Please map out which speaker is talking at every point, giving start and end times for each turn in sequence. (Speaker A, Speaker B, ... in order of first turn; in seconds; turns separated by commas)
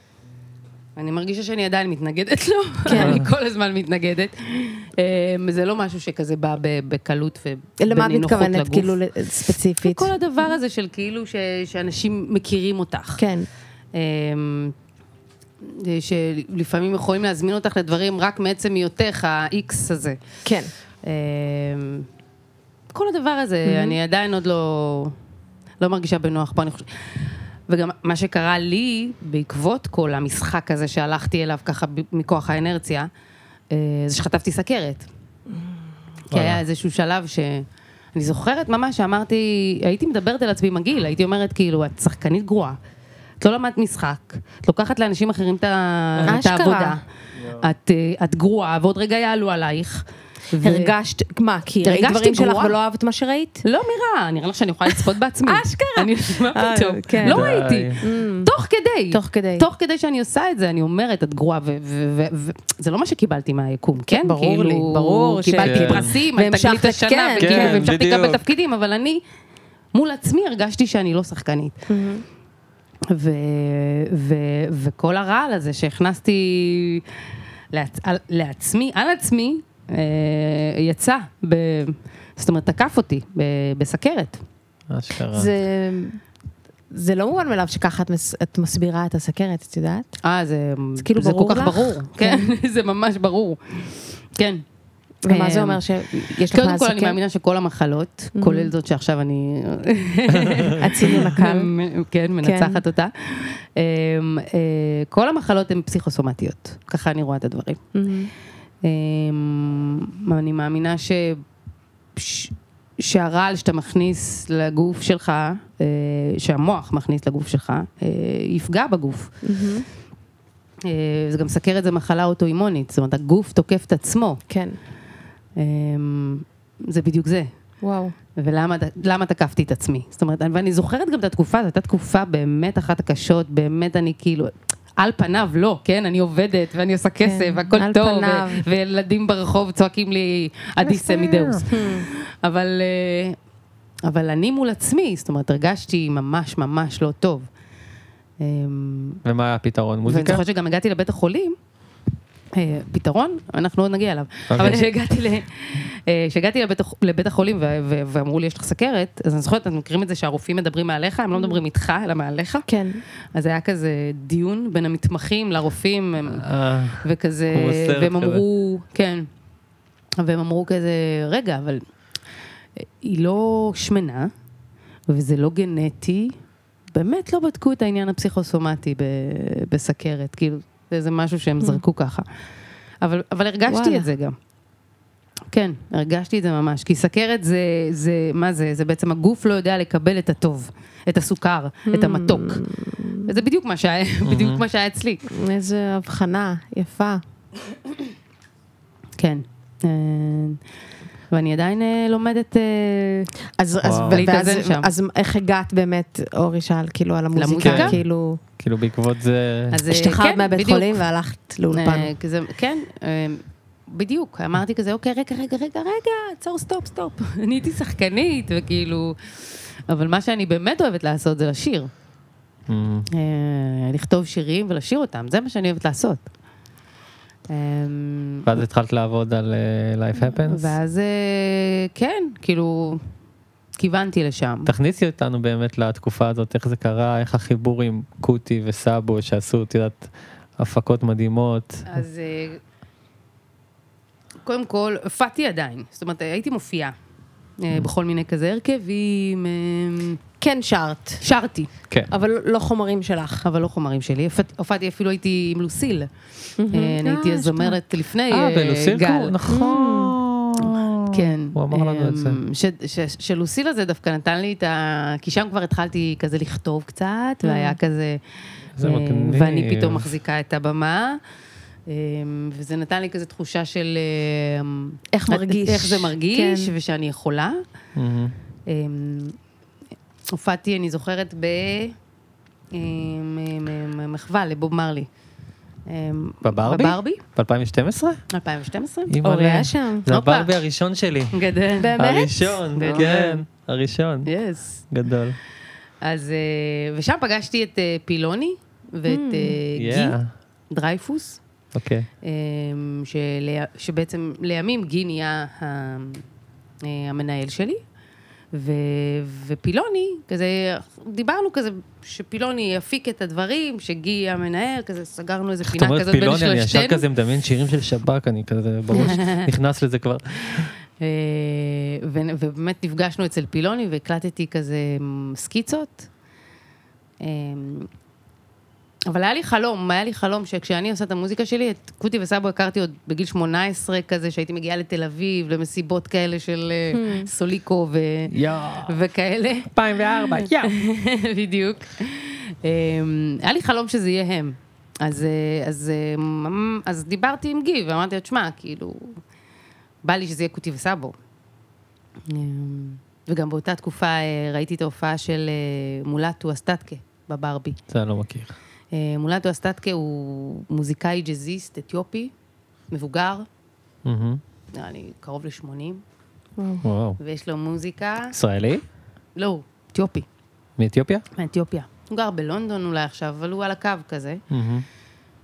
Speaker A: 0.9-9.0, Speaker B: 2.8-3.2, Speaker C: 3.0-3.3, Speaker B: 7.8-10.1, Speaker A: 9.8-13.2, Speaker B: 13.2-13.5, Speaker A: 13.9-14.7, Speaker A: 15.6-20.2, Speaker B: 20.4-20.7, Speaker A: 21.0-22.1, Speaker A: 22.9-25.1, Speaker B: 23.6-24.0, Speaker A: 25.8-33.1, Speaker A: 33.7-35.0, Speaker C: 36.3-36.6, Speaker A: 36.3-42.8, Speaker A: 43.4-50.9, Speaker B: 46.2-47.0, Speaker B: 50.6-53.6, Speaker A: 51.8-52.8, Speaker A: 53.6-69.2, Speaker B: 55.5-57.5, Speaker C: 57.2-58.0, Speaker B: 58.0-58.5, Speaker B: 59.1-59.6, Speaker B: 64.0-67.9, Speaker C: 65.6-66.1, Speaker C: 67.4-68.4, Speaker A: 69.9-71.8, Speaker B: 71.9-72.2, Speaker A: 73.1-77.0, Speaker A: 77.7-84.4, Speaker C: 84.9-85.5, Speaker B: 85.3-86.2, Speaker B: 86.9-90.1, Speaker A: 90.2-94.6, Speaker B: 91.0-92.5, Speaker B: 95.2-97.2, Speaker A: 95.3-107.8, Speaker B: 98.3-98.7, Speaker B: 100.7-101.7, Speaker B: 102.4-102.8, Speaker B: 107.9-108.3, Speaker A: 108.8-111.4, Speaker A: 112.2-119.3, Speaker B: 119.4-119.8, Speaker A: 120.8-124.4, Speaker B: 124.5-124.8, Speaker A: 125.6-127.5, Speaker B: 127.8-128.1, Speaker A: 128.4-143.3, Speaker B: 137.2-138.6, Speaker C: 140.8-141.6, Speaker B: 141.7-142.1, Speaker A: 144.0-147.5, Speaker A: 148.4-149.2, Speaker C: 149.2-150.4, Speaker A: 150.1-151.6, Speaker A: 152.5-162.7, Speaker C: 154.5-154.8, Speaker B: 162.7-163.0, Speaker A: 163.3-166.5, Speaker C: 166.3-168.4, Speaker A: 167.0-169.3, Speaker A: 170.2-171.8, Speaker A: 172.8-174.3, Speaker A: 175.1-176.3, Speaker A: 176.9-182.2, Speaker A: 183.0-184.3, Speaker B: 183.7-184.1, Speaker A: 185.5-192.6, Speaker B: 191.9-193.3, Speaker A: 193.2-195.2, Speaker C: 194.2-194.6, Speaker B: 195.3-197.2, Speaker A: 199.2-200.6, Speaker A: 201.3-203.3, Speaker B: 203.6-208.4, Speaker C: 203.8-204.3, Speaker A: 204.1-204.9, Speaker A: 207.3-207.9, Speaker C: 207.6-208.0, Speaker C: 208.6-209.8, Speaker A: 209.7-211.0, Speaker B: 209.9-212.1, Speaker A: 211.7-219.2, Speaker A: 219.9-221.9, Speaker C: 222.7-223.1, Speaker A: 223.1-226.2, Speaker A: 227.5-228.6, Speaker C: 228.4-230.8, Speaker A: 230.4-233.0, Speaker A: 233.8-234.7, Speaker C: 234.7-242.0, Speaker A: 241.9-242.6, Speaker A: 244.4-246.9, Speaker A: 247.6-250.2, Speaker B: 250.4-251.2, Speaker A: 251.2-251.7, Speaker B: 252.1-253.4, Speaker A: 253.4-256.1, Speaker B: 256.6-257.8, Speaker A: 256.7-259.4, Speaker C: 258.3-262.4, Speaker B: 259.5-260.1, Speaker A: 260.6-268.2, Speaker B: 267.4-267.8, Speaker C: 268.8-270.1, Speaker A: 268.8-271.2, Speaker A: 271.9-277.6, Speaker B: 275.1-276.7, Speaker C: 277.9-278.3, Speaker A: 278.7-279.4, Speaker A: 280.3-281.9, Speaker A: 282.7-285.1, Speaker A: 285.9-287.2, Speaker C: 286.4-288.2, Speaker A: 288.3-289.1, Speaker C: 289.1-291.4, Speaker B: 289.2-290.1, Speaker A: 290.1-290.5, Speaker A: 291.3-291.9, Speaker B: 291.8-293.1, Speaker C: 292.0-294.3, Speaker A: 292.8-293.4, Speaker A: 294.2-294.8, Speaker C: 294.9-295.4, Speaker A: 296.0-300.2, Speaker B: 299.1-299.6, Speaker C: 299.7-300.3, Speaker A: 300.7-301.4, Speaker C: 301.7-302.1, Speaker A: 302.2-306.2, Speaker A: 306.8-307.8, Speaker A: 308.5-317.0, Speaker C: 315.6-320.7, Speaker A: 318.9-319.5, Speaker A: 321.0-326.1, Speaker A: 327.2-327.9, Speaker A: 329.1-339.7, Speaker B: 336.9-337.3, Speaker C: 338.3-338.9, Speaker C: 339.7-340.8, Speaker A: 340.4-349.2, Speaker A: 350.0-351.1, Speaker A: 352.3-357.8, Speaker C: 357.9-358.5, Speaker A: 358.9-362.3, Speaker A: 362.9-363.5, Speaker C: 364.0-364.4, Speaker A: 364.7-366.0, Speaker B: 366.6-366.8, Speaker C: 366.8-367.2, Speaker A: 367.2-368.3, Speaker C: 368.3-368.8, Speaker A: 369.4-370.2, Speaker C: 370.8-371.2, Speaker A: 371.4-374.4, Speaker C: 374.5-374.9